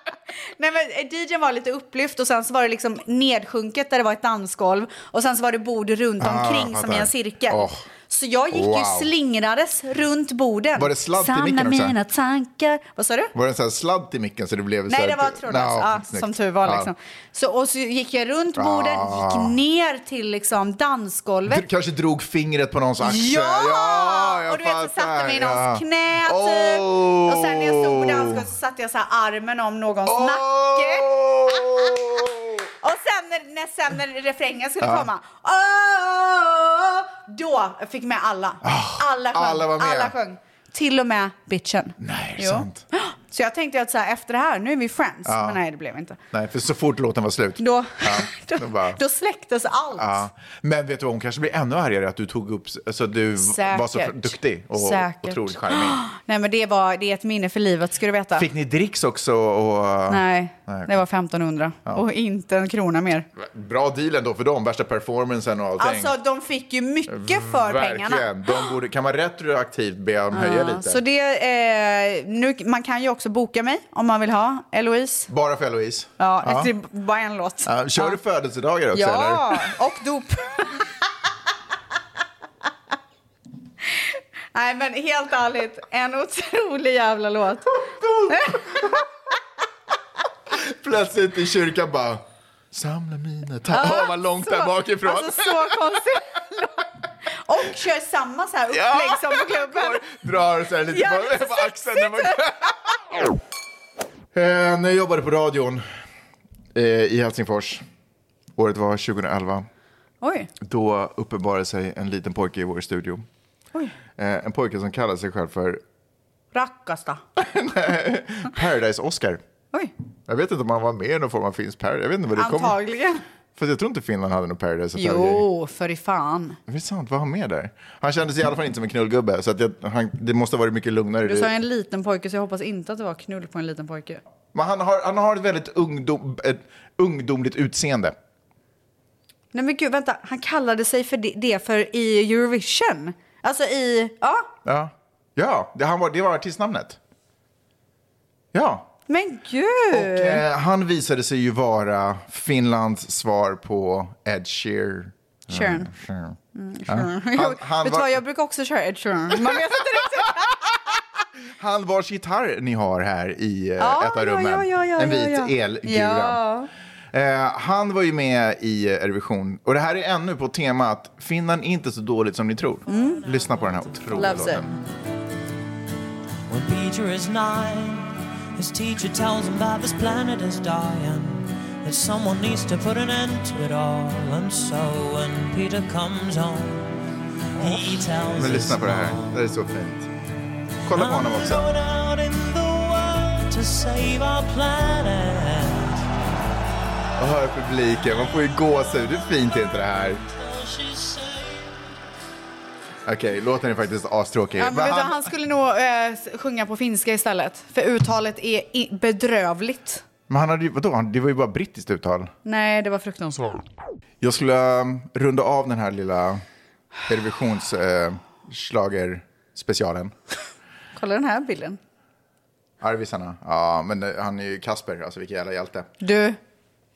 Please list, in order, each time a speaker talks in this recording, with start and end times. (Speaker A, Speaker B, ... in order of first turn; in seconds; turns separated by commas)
Speaker A: 0.6-13.3, Speaker B: 6.2-7.8, Speaker B: 8.5-9.1, Speaker B: 10.8-11.9, Speaker B: 13.3-16.9, Speaker A: 14.9-21.6, Speaker B: 18.6-19.6, Speaker B: 21.5-28.5, Speaker A: 23.0-31.9, Speaker B: 30.1-32.7, Speaker A: 32.8-46.2, Speaker B: 34.8-35.1, Speaker B: 38.6-40.1, Speaker B: 42.0-42.8, Speaker B: 45.2-45.6, Speaker B: 46.3-49.0, Speaker A: 47.6-50.3, Speaker B: 50.0-56.0, Speaker A: 53.4-58.5, Speaker B: 58.4-61.0, Speaker A: 60.1-63.3, Speaker B: 63.4-66.1, Speaker A: 65.8-68.5, Speaker B: 67.1-71.0, Speaker A: 70.3-75.3, Speaker B: 75.3-76.7, Speaker A: 76.2-78.2, Speaker B: 77.7-79.7, Speaker A: 78.9-80.9, Speaker A: 84.0-87.8, Speaker B: 87.7-88.9, Speaker A: 88.3-89.0, Speaker B: 90.5-95.8, Speaker A: 93.7-96.9, Speaker A: 97.5-100.1, Speaker B: 98.7-102.9, Speaker A: 100.9-102.4, Speaker B: 104.3-105.9, Speaker B: 106.7-107.8, Speaker B: 108.6-109.7, Speaker A: 110.2-110.5, Speaker B: 110.6-113.2, Speaker B: 114.2-115.8, Speaker A: 116.5-117.2, Speaker B: 117.4-119.4, Speaker B: 120.3-122.8, Speaker A: 122.4-123.2, Speaker B: 123.6-125.4, Speaker A: 125.0-126.6, Speaker B: 126.7-131.5, Speaker A: 131.2-134.2, Speaker B: 134.5-138.2, Speaker A: 139.5-144.5, Speaker B: 144.6-147.0, Speaker B: 148.5-148.9, Speaker A: 149.1-150.4, Speaker B: 149.9-156.4, Speaker A: 155.5-155.9, Speaker A: 156.5-160.6, Speaker B: 156.9-158.2, Speaker B: 161.6-166.4, Speaker A: 163.8-166.7, Speaker B: 167.1-174.8, Speaker A: 172.9-173.3, Speaker A: 174.1-174.7, Speaker C: 176.5-186.9, Speaker C: 187.6-189.3, Speaker B: 188.3-190.1, Speaker B: 190.8-191.7, Speaker C: 190.9-196.1, Speaker B: 197.2-200.2, Speaker C: 200.7-201.3, Speaker B: 203.1-205.3, Speaker A: 204.6-210.0, Speaker B: 210.3-212.3, Speaker A: 212.4-213.6, Speaker B: 214.2-216.4, Speaker B: 217.1-220.1, Speaker A: 220.9-221.8, Speaker B: 222.8-225.9, Speaker A: 226.0-226.4